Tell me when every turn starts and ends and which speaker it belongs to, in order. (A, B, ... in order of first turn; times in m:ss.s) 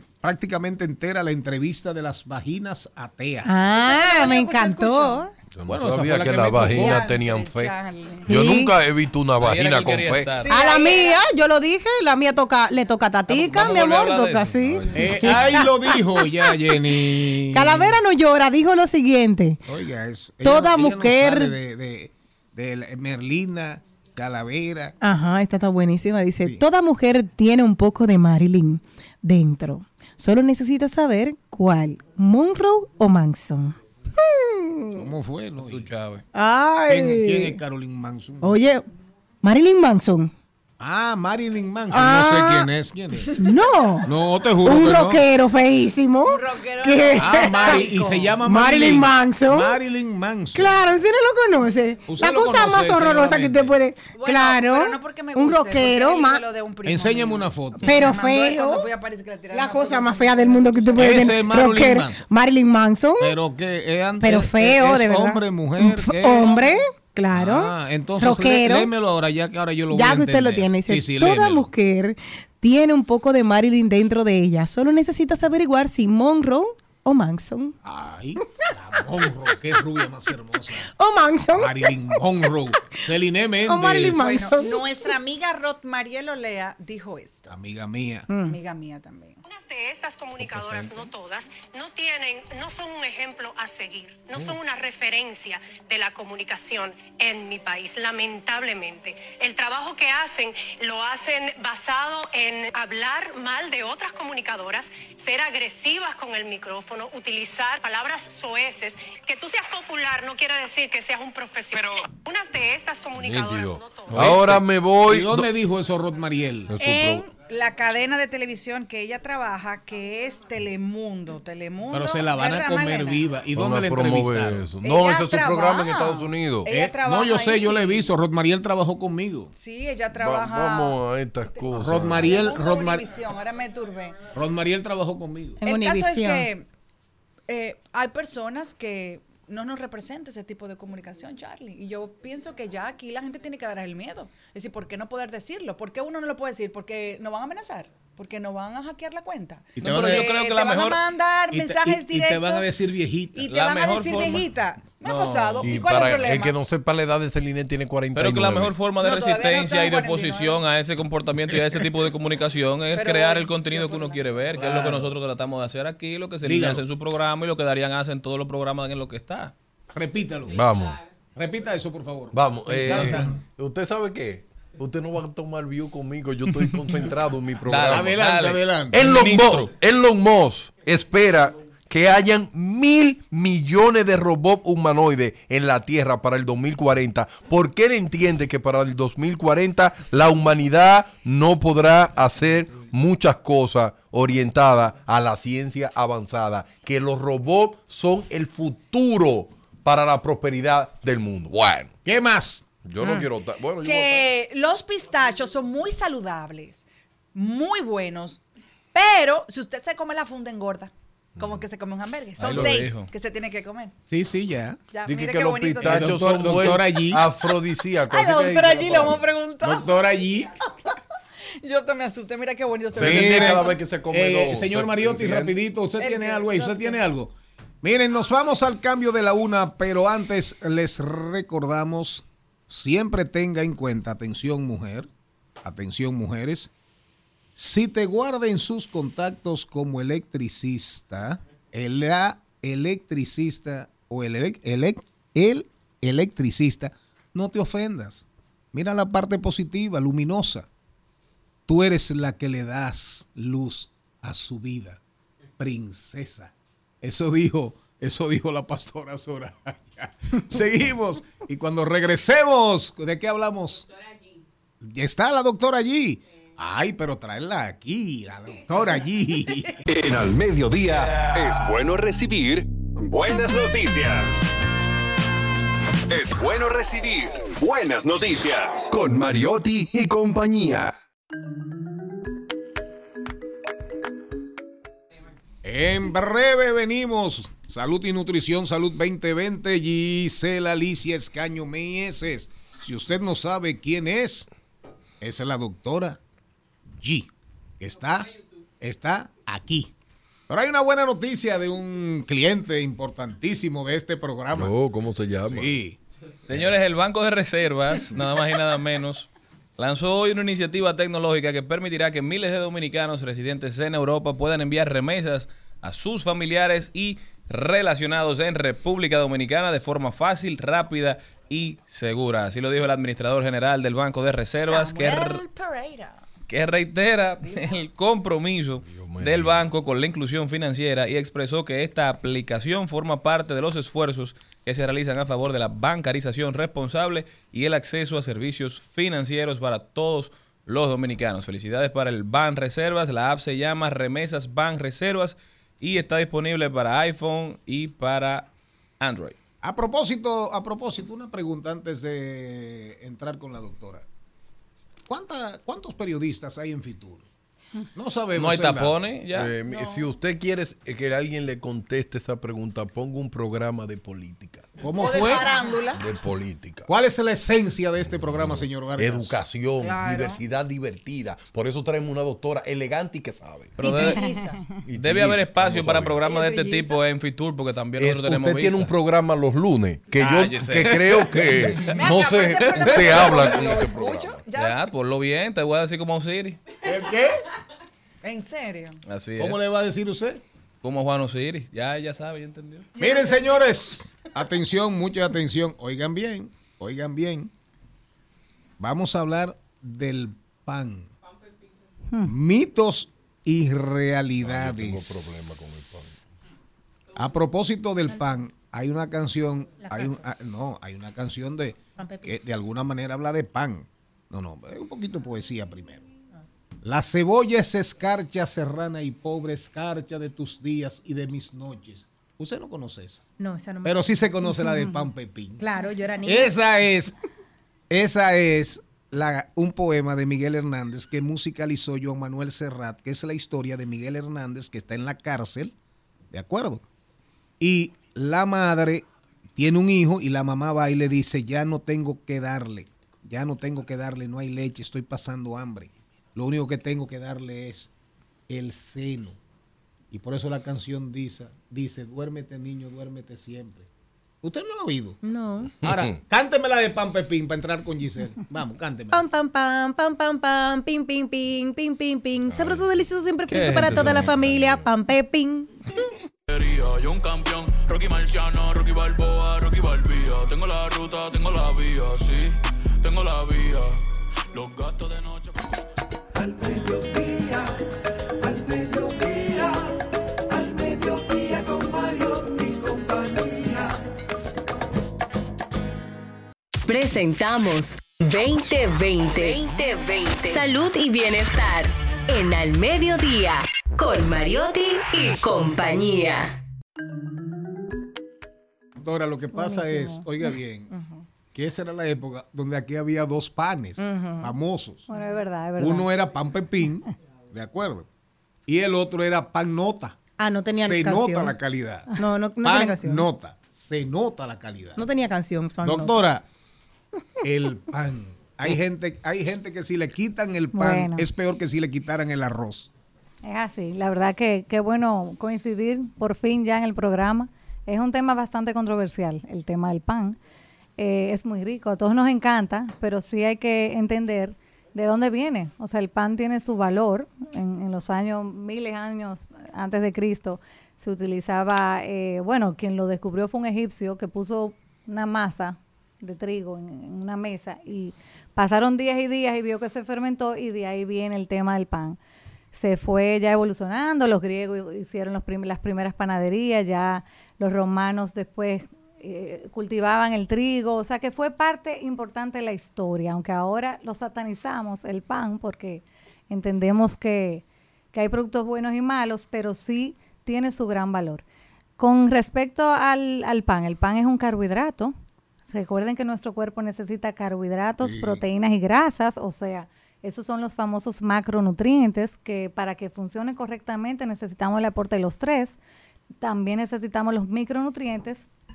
0:00.2-0:03.7 A
0:03.5-0:05.3 B
0:03.8-0:05.3 C
0:05.6-0:07.8 D
0:05.7-0:07.0 A
0:06.6-0:08.5 C
0:08.3-0:10.3 D
0:08.3-0:08.7 B
0:09.4-0:10.6 E
0:10.4-0:11.2 C
0:10.5-0:16.6 B
0:13.3-0:14.9 E
0:14.6-0:15.3 D
0:14.9-0:18.0 A
0:17.5-0:19.6 B
0:19.7-0:25.0 A
0:20.4-0:21.5 B
0:25.0-0:35.1 B
0:35.0-0:35.9 A
0:35.7-0:36.2 E
0:36.4-0:37.6 B
0:36.9-0:38.6 A
0:38.4-0:38.8 B
0:39.4-0:40.3 B
0:40.8-0:43.4 A
0:41.9-0:42.7 B
0:43.3-0:44.1 B
0:44.0-0:45.2 A
0:44.6-0:47.9 B
0:46.3-0:48.4 C
0:47.2-0:50.8 A
0:48.4-0:49.8 B
0:50.5-0:56.4 B
0:52.1-0:53.8 A
0:54.1-1:01.3 C
0:56.8-0:57.9 A
0:57.8-0:58.9 B
0:59.5-1:03.4 B
1:01.0-1:02.2 A
1:03.2-1:06.8 A
1:04.2-1:08.9 B
1:07.3-1:11.7 A
1:09.9-1:17.8 B
1:17.8-1:20.9 A
1:20.8-1:22.0 B
1:21.6-1:24.3 A
1:23.7-1:25.1 B
1:24.2-1:27.5 C
1:27.5-1:28.3 A
1:28.3-1:28.6 B
1:28.4-1:29.4 C
1:29.4-1:54.6 F
1:30.4-1:31.1 D
1:53.2-1:55.5 D
1:54.2-1:54.5 A
1:55.1-1:56.7 A
1:56.7-1:57.3 D
1:56.8-2:03.3 C
2:01.9-2:04.7 A
2:03.5-2:06.7 D
2:04.8-2:08.1 C
2:06.7-2:09.5 A
2:09.5-2:11.0 C
2:10.2-2:12.4 D
2:11.7-2:13.1 A
2:12.1-2:14.3 C
2:14.3-2:15.6 A
2:15.6-2:16.5 B
2:15.6-2:16.7 C
2:17.5-2:32.8 C
2:29.8-2:30.3 A
2:29.8-2:31.0 E
2:31.5-2:33.4 A
2:33.3-2:36.6 C
2:33.5-2:34.5 E
2:35.0-2:35.8 E
2:35.6-2:38.7 D
2:38.2-2:49.5 E
2:39.0-2:40.6 C
2:42.9-2:44.3 C
2:44.5-2:45.1 A
2:46.4-2:46.8 A
2:49.9-2:50.7 A
2:50.5-2:51.0 D
2:51.4-2:53.4 A
2:52.3-2:58.2 D
2:57.7-2:59.7 E
2:57.8-2:59.2 A
2:58.9-3:21.9 D
3:22.0-3:22.7 A
3:22.8-3:24.3 D
3:23.8-3:28.4 C
3:28.9-3:34.0 C
3:31.4-3:31.6 D
3:32.4-3:33.1 E
3:34.1-3:34.8 A
3:34.9-3:36.6 C
3:35.1-3:39.3 D
3:35.8-3:37.3 A
3:38.1-3:40.0 C
3:39.6-3:40.5 A
3:41.6-3:43.8 C
3:42.9-3:45.6 D
3:43.0-3:55.1 A
3:46.0-3:47.0 C
3:55.6-3:56.7 A
3:57.6-4:10.7 A
4:11.7-4:15.0 A
4:15.6-4:23.9 A
4:24.8-4:29.8 A
4:29.9-4:34.4 G
4:36.1-4:41.0 G
4:45.6-4:54.5 A
4:55.2-4:56.2 A
4:57.0-4:59.9 A
5:00.5-5:04.7 A
5:04.5-5:05.8 D
5:05.4-5:06.0 A
5:06.5-5:25.4 E
5:24.5-5:26.2 C
5:26.5-5:48.5 E
5:28.9-5:29.7 D
5:49.0-5:49.4 E
5:49.6-5:54.0 A
5:55.1-5:57.3 A
5:58.0-5:59.0 A
5:58.4-5:59.5 E
5:59.3-6:04.7 D
6:04.8-6:05.5 A
6:05.0-6:06.0 C
6:06.0-6:06.9 D
6:06.9-6:09.4 A
6:08.1-6:14.0 D
6:09.8-6:10.4 C
6:13.8-6:14.3 E
6:13.8-6:14.6 C
6:14.9-6:16.2 D
6:15.0-6:18.9 E
6:16.2-6:17.0 C
6:18.0-6:24.4 D
6:20.2-6:21.3 E
6:21.8-6:24.8 C
6:22.8-6:23.4 A
6:24.6-6:26.6 E
6:26.8-6:27.4 A
6:28.2-6:29.0 C
6:29.1-6:29.6 E
6:29.4-6:30.4 A
6:30.8-6:32.9 E
6:33.0-6:33.5 C
6:33.0-6:37.5 A
6:38.8-6:41.1 A
6:42.2-6:45.6 A
6:44.4-6:46.2 D
6:47.2-6:56.1 A
6:49.8-6:50.2 B
6:52.0-6:52.3 B
6:56.8-7:03.3 A
7:03.4-7:05.1 B
7:03.8-7:05.6 A
7:05.6-7:06.5 B
7:06.2-7:07.1 A
7:07.9-7:15.8 A
7:16.3-7:16.8 A
7:17.6-7:27.9 A
7:28.5-7:29.4 A
7:30.1-7:33.9 A
7:34.4-7:35.2 A
7:35.2-7:35.7 B
7:35.8-7:39.2 A
7:35.8-7:36.2 D
7:39.1-7:45.7 B
7:42.4-7:42.9 D
7:43.5-7:44.3 E
7:43.6-7:44.9 D
7:46.5-7:54.0 H
7:54.5-7:55.7 H
7:56.4-7:57.2 H
7:57.1-7:57.8 I
7:58.4-8:00.0 I
8:00.5-8:04.0 I
8:06.9-8:16.5 J
8:19.0-8:20.9 A
8:19.5-8:20.3 K
8:20.9-8:21.2 B
8:21.5-8:25.1 A
8:24.0-8:24.5 B
8:25.1-8:26.1 K
8:25.8-8:28.1 A
8:28.7-8:30.2 A
8:30.4-8:31.6 B
8:30.7-8:32.1 A
8:32.2-8:33.3 B
8:32.6-8:35.1 A
8:35.0-8:36.2 B
8:35.8-8:36.5 A
8:37.4-8:42.9 A
8:40.7-8:41.2 K
8:43.4-8:50.4 K
8:51.0-9:12.2 K
9:12.7-9:27.6 K
9:28.1-9:31.4 K
9:32.0-9:35.2 K
9:35.7-9:45.8 K
9:38.0-9:38.4 A
9:46.4-9:48.5 K